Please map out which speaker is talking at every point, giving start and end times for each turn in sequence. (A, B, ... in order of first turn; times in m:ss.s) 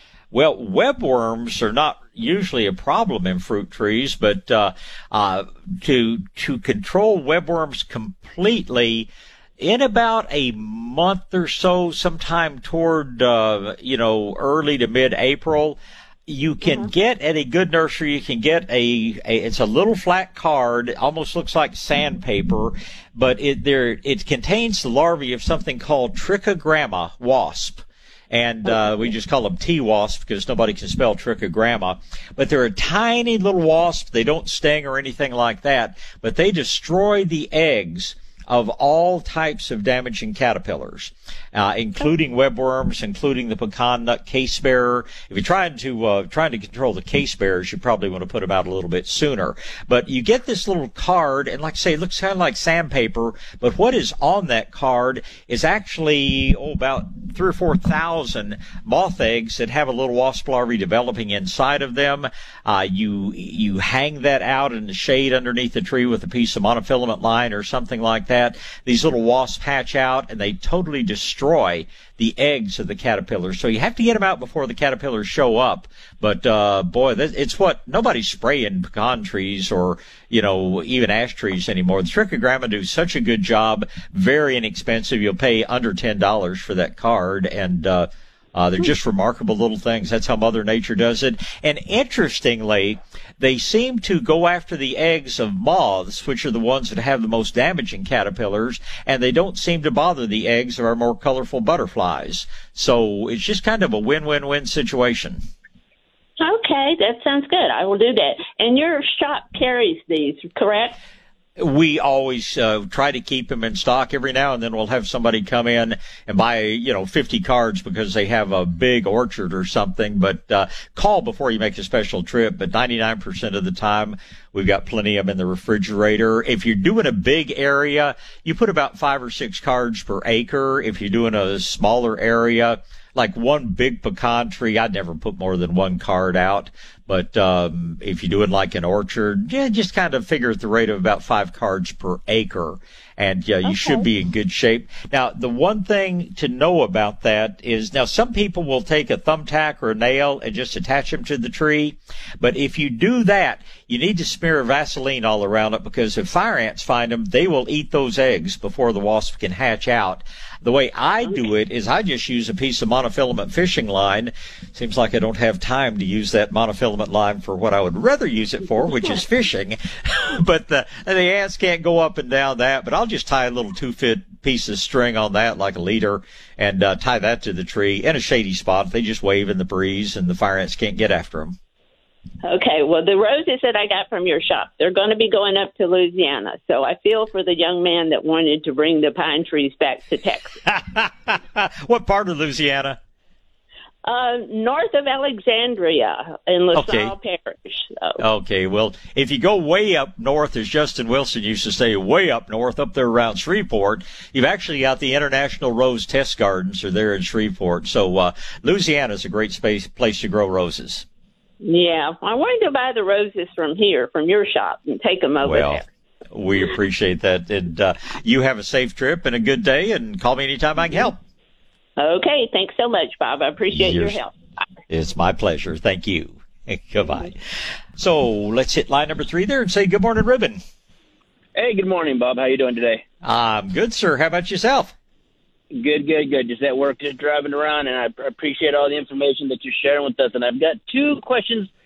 0:00.3-1:45.4 A
1:46.4-1:51.0 B
1:51.6-3:01.6 A
2:23.6-2:24.0 B
3:02.4-3:10.6 B
3:10.7-3:13.0 A
3:14.0-3:18.2 B
3:16.7-3:17.1 A
3:18.2-3:31.0 A
3:31.6-3:35.8 B
3:35.4-3:41.2 A
3:42.0-3:44.3 B
3:43.7-3:44.2 A
3:44.9-3:47.4 A
3:47.9-3:50.6 A
3:51.5-3:53.0 C
3:53.2-3:54.9 A
3:55.7-4:01.7 C